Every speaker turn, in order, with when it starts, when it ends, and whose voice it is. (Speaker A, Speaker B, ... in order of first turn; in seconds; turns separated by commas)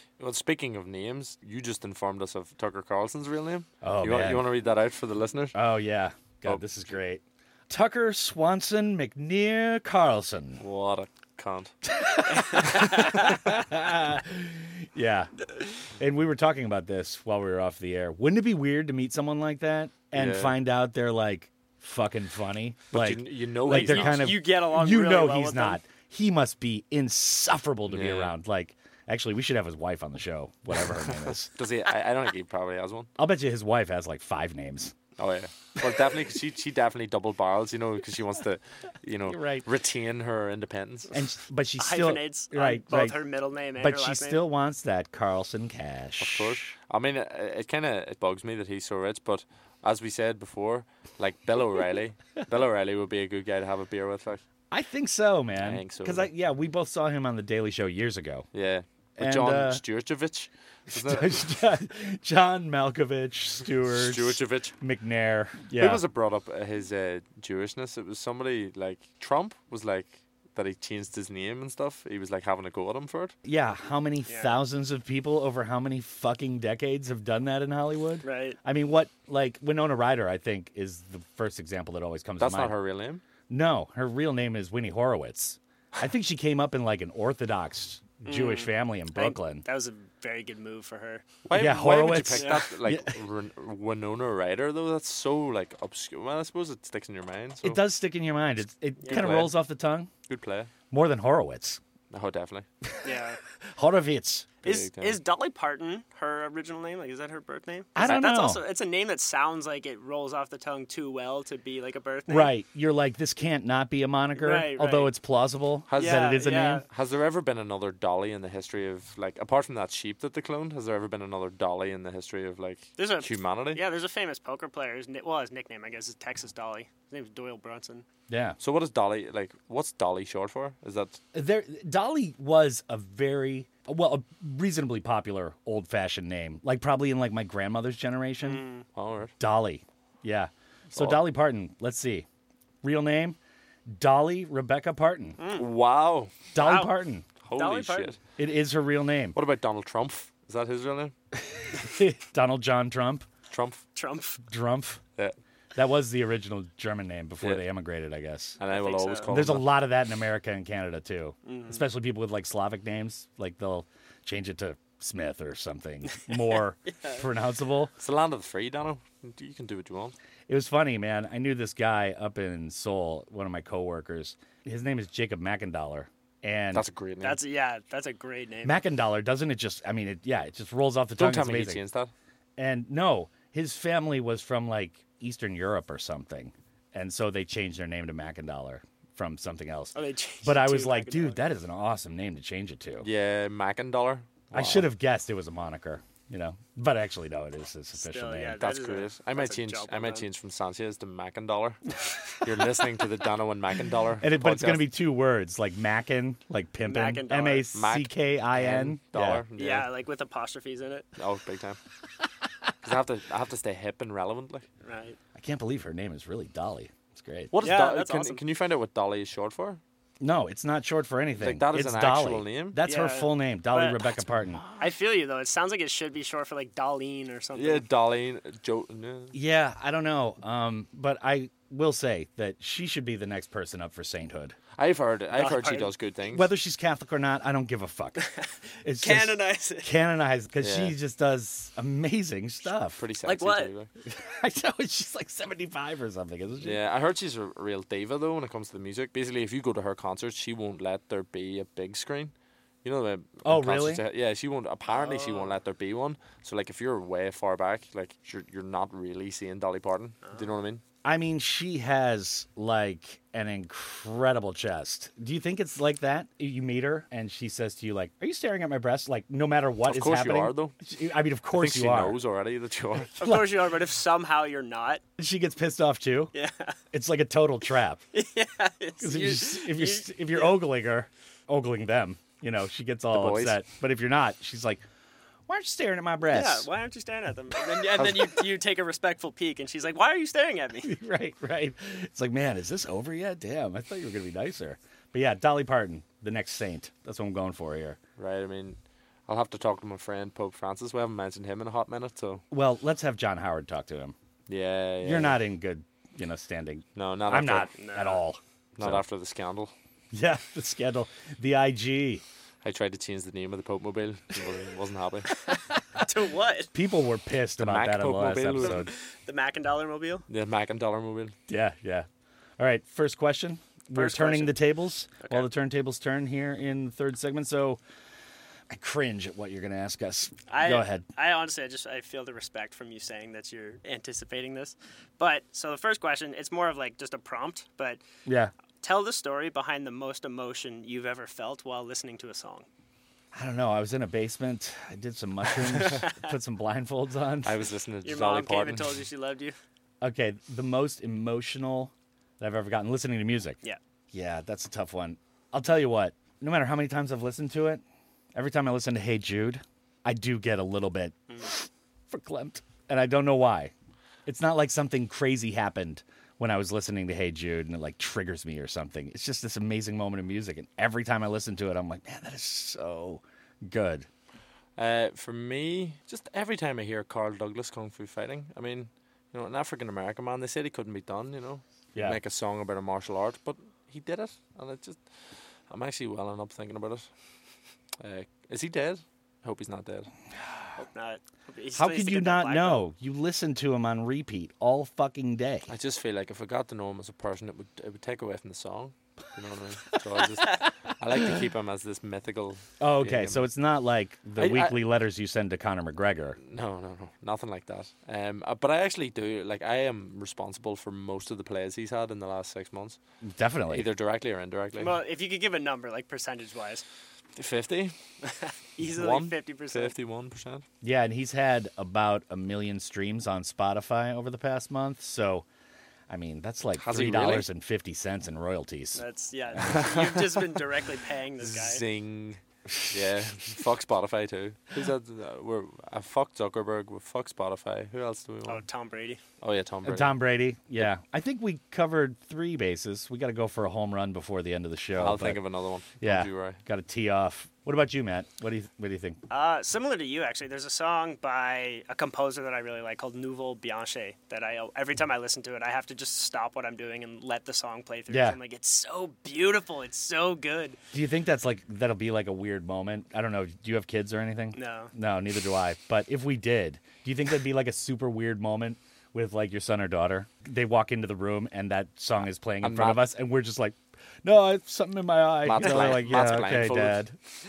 Speaker A: 0.2-5.5, Speaker B: 3.8-4.5, Speaker B: 5.5-10.6, Speaker A: 10.6-11.7, Speaker B: 11.9-31.5, Speaker C: 12.3-13.0, Speaker A: 20.1-20.6, Speaker A: 22.9-24.4, Speaker C: 23.6-25.8, Speaker A: 27.9-28.3, Speaker A: 31.1-33.1, Speaker B: 33.2-34.9, Speaker A: 35.2-41.1, Speaker B: 39.3-39.6, Speaker B: 41.1-43.2, Speaker C: 41.8-44.4, Speaker B: 43.8-46.7, Speaker A: 46.2-54.4, Speaker B: 54.7-58.5, Speaker A: 55.5-56.3, Speaker A: 58.5-61.4, Speaker B: 59.2-59.8, Speaker B: 60.9-66.0, Speaker A: 63.9-64.7, Speaker A: 65.7-73.3, Speaker B: 73.4-82.7, Speaker C: 74.2-74.6, Speaker C: 78.2-78.6, Speaker A: 82.4-83.2, Speaker B: 83.5-89.7, Speaker C: 88.2-91.2, Speaker A: 91.5-97.8, Speaker B: 91.5-93.1, Speaker C: 92.3-92.6, Speaker B: 97.6-100.1, Speaker C: 99.0-99.5, Speaker A: 99.1-99.5, Speaker A: 100.3-100.7, Speaker B: 100.9-101.8, Speaker A: 102.1-102.7, Speaker C: 103.0-103.4, Speaker B: 103.6-104.5, Speaker C: 104.6-112.5, Speaker A: 104.6-105.2, Speaker B: 107.9-108.6, Speaker B: 112.3-116.8, Speaker C: 114.3-115.1, Speaker A: 115.9-123.8, Speaker C: 116.0-116.8, Speaker C: 123.0-128.0, Speaker B: 128.3-128.6, Speaker A: 128.6-131.2, Speaker B: 131.3-138.6, Speaker C: 138.4-138.8, Speaker A: 138.9-139.3, Speaker B: 139.4-142.2, Speaker A: 140.9-141.2, Speaker B: 142.8-145.4, Speaker C: 145.4-145.7, Speaker A: 145.5-146.3, Speaker B: 146.5-147.2, Speaker C: 146.6-146.9, Speaker A: 147.4-148.2, Speaker C: 147.5-148.2, Speaker B: 148.4-149.4, Speaker A: 149.3-151.1, Speaker B: 151.4-153.3, Speaker A: 153.5-153.8, Speaker C: 153.9-154.4, Speaker B: 154.5-155.0, Speaker B: 155.7-158.6, Speaker A: 158.6-159.7, Speaker C: 158.7-159.3, Speaker B: 159.3-167.9, Speaker C: 161.4-161.9, Speaker C: 166.8-167.2, Speaker A: 168.0-170.1, Speaker B: 170.5-176.8, Speaker A: 176.7-177.4, Speaker C: 177.2-178.8, Speaker B: 178.6-181.8, Speaker A: 181.2-182.1, Speaker B: 182.6-193.1, Speaker C: 189.9-191.4, Speaker A: 193.0-194.9, Speaker B: 194.5-198.6, Speaker C: 197.9-200.3, Speaker A: 198.6-204.8, Speaker B: 204.2-209.4, Speaker C: 206.8-207.7, Speaker A: 207.7-209.9, Speaker C: 209.6-211.1, Speaker A: 211.2-211.8, Speaker A: 212.8-214.7, Speaker C: 214.8-215.2, Speaker B: 215.3-217.5, Speaker A: 217.5-219.8, Speaker C: 217.6-218.4, Speaker B: 220.2-224.6, Speaker A: 221.4-222.8, Speaker C: 222.8-224.2, Speaker C: 224.8-227.8, Speaker A: 227.5-229.3, Speaker B: 229.3-234.6, Speaker A: 234.8-236.5, Speaker C: 235.4-235.9, Speaker B: 236.3-238.3, Speaker C: 238.2-239.9, Speaker B: 238.8-243.0, Speaker A: 240.6-240.9, Speaker A: 243.0-243.9, Speaker C: 243.2-243.7, Speaker B: 244.1-246.8, Speaker A: 246.6-252.3, Speaker A: 252.8-260.8, Speaker B: 253.4-254.0, Speaker C: 254.9-255.6, Speaker B: 261.0-272.2, Speaker A: 269.8-270.7, Speaker A: 271.5-273.1, Speaker B: 273.2-273.6, Speaker C: 273.2-275.0, Speaker B: 275.2-276.3, Speaker C: 276.3-276.8, Speaker B: 276.9-278.0, Speaker C: 278.1-280.6, Speaker B: 279.0-284.8, Speaker A: 283.1-283.6, Speaker B: 285.5-286.7, Speaker C: 286.3-290.9, Speaker A: 288.0-288.4, Speaker B: 290.8-298.0, Speaker A: 298.2-302.4, Speaker B: 302.5-304.1, Speaker A: 304.5-305.4, Speaker B: 305.0-309.0, Speaker A: 306.9-307.7, Speaker C: 307.7-308.2, Speaker A: 308.8-309.7, Speaker B: 310.1-312.2, Speaker A: 312.6-315.3, Speaker C: 315.5-316.7, Speaker B: 316.7-318.9, Speaker A: 317.6-318.9, Speaker C: 318.6-320.2, Speaker A: 320.3-321.3, Speaker B: 321.5-322.1, Speaker B: 322.6-327.8, Speaker C: 323.9-324.6, Speaker B: 328.7-331.1, Speaker C: 330.5-338.0, Speaker B: 338.2-338.5, Speaker C: 338.8-342.7, Speaker B: 343.3-347.6, Speaker C: 345.8-346.3, Speaker A: 347.4-349.0, Speaker C: 348.0-349.6, Speaker B: 350.0-353.6, Speaker B: 354.1-357.8, Speaker B: 358.3-363.7, Speaker B: 364.2-374.1, Speaker A: 374.8-385.1, Speaker A: 385.7-387.1, Speaker A: 388.0-390.1, Speaker C: 390.8-392.8, Speaker B: 391.7-395.7, Speaker A: 395.7-403.4, Speaker B: 402.8-406.4, Speaker A: 404.4-404.8, Speaker A: 406.4-413.0, Speaker B: 413.2-413.9, Speaker A: 413.7-415.0, Speaker C: 414.8-416.8, Speaker A: 417.4-417.9, Speaker C: 418.2-419.9, Speaker A: 418.8-420.6, Speaker B: 420.8-425.4, Speaker B: 426.1-429.0, Speaker A: 426.8-427.4, Speaker C: 428.9-431.8, Speaker A: 429.6-430.4, Speaker A: 431.4-438.6, Speaker C: 438.5-439.2, Speaker A: 439.4-440.1, Speaker B: 439.8-445.4, Speaker A: 444.9-446.6, Speaker B: 446.0-449.2, Speaker C: 449.3-460.8, Speaker B: 458.1-458.4, Speaker B: 460.9-477.1, Speaker C: 464.5-464.9, Speaker A: 472.6-473.1, Speaker A: 475.4-477.0